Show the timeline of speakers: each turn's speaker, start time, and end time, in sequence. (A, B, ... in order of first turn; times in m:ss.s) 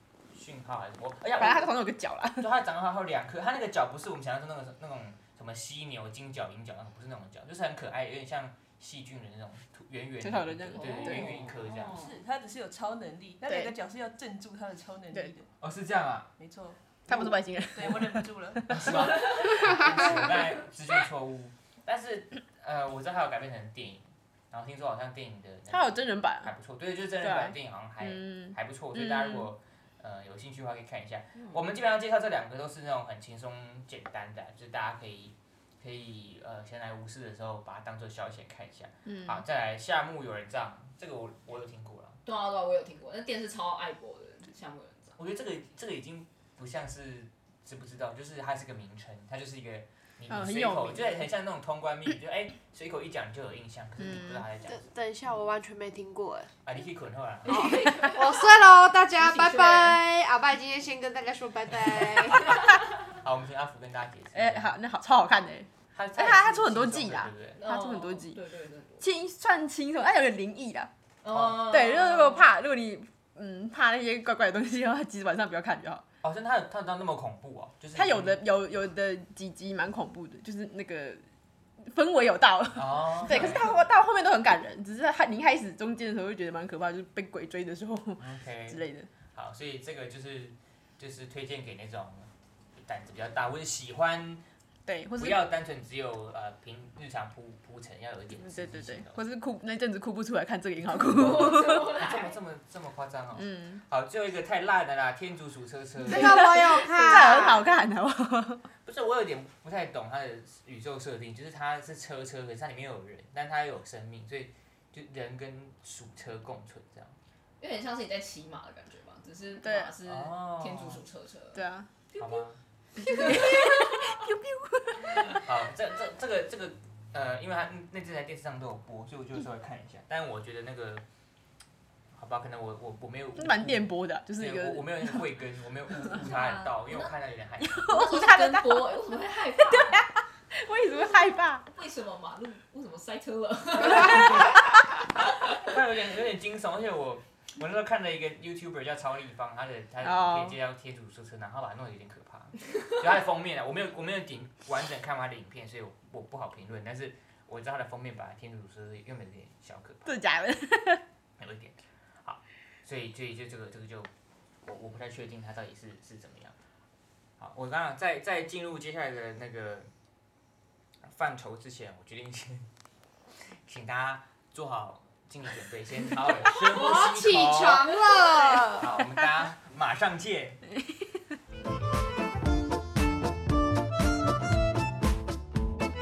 0:00.3-0:01.8 A
0:01.4-0:02.5 B
0:02.4-0:12.0 A
0:10.2-0:11.4 B
0:10.7-0:12.1 C
0:11.0-0:15.5 D
0:13.4-0:13.7 B
0:15.6-0:16.3 A
0:16.4-0:20.4 D
0:17.1-0:20.3 B
0:18.7-0:42.2 A
0:25.7-0:26.5 B
0:27.2-0:29.5 B
0:39.1-0:39.4 B
0:42.2-0:45.1 C
0:45.2-0:54.8 A
0:50.3-0:51.3 B
0:54.0-0:54.4 B
0:54.7-0:56.5 E
0:56.6-0:57.8 A
0:57.4-0:58.5 C
0:57.9-1:02.6 E
0:59.2-1:00.0 C
1:03.1-1:04.7 A
1:04.3-1:08.4 B
1:05.9-1:07.6 A
1:07.6-1:09.1 C
1:09.0-1:10.9 B
1:11.2-1:12.5 C
1:11.3-1:11.6 A
1:11.6-1:16.0 B
1:16.2-1:18.4 A
1:17.9-1:21.2 B
1:21.8-1:29.1 B
1:22.7-1:23.7 A
1:28.2-1:28.8 A
1:29.3-1:34.4 A
1:34.9-1:35.4 B
1:35.2-1:39.2 A
1:38.4-1:41.9 B
1:41.0-1:42.4 C
1:41.8-1:46.6 A
1:43.4-1:43.8 B
1:46.0-1:47.6 E
1:46.1-1:48.6 B
1:48.8-1:57.2 A
1:57.6-2:01.6 C
1:59.6-1:59.9 B
2:00.0-2:01.0 A
2:01.5-2:01.9 B
2:02.1-2:02.4 C
2:02.2-2:02.6 A
2:03.0-2:04.1 C
2:03.0-2:05.4 B
2:05.4-2:11.0 A
2:12.1-2:17.9 A
2:13.4-2:15.2 B
2:16.0-2:17.1 C
2:17.6-2:19.0 B
2:17.9-2:20.0 C
2:19.6-2:21.6 B
2:21.7-2:24.6 C
2:23.8-2:24.6 A
2:25.6-2:40.2 A
2:30.0-2:30.6 B
2:40.1-2:41.0 B
2:41.4-2:44.1 A
2:44.6-2:46.6 A
2:47.4-2:49.9 A
2:51.1-2:52.7 A
2:53.4-2:58.0 A
2:56.5-2:58.9 E
2:58.7-3:00.6 A
3:00.9-3:01.2 B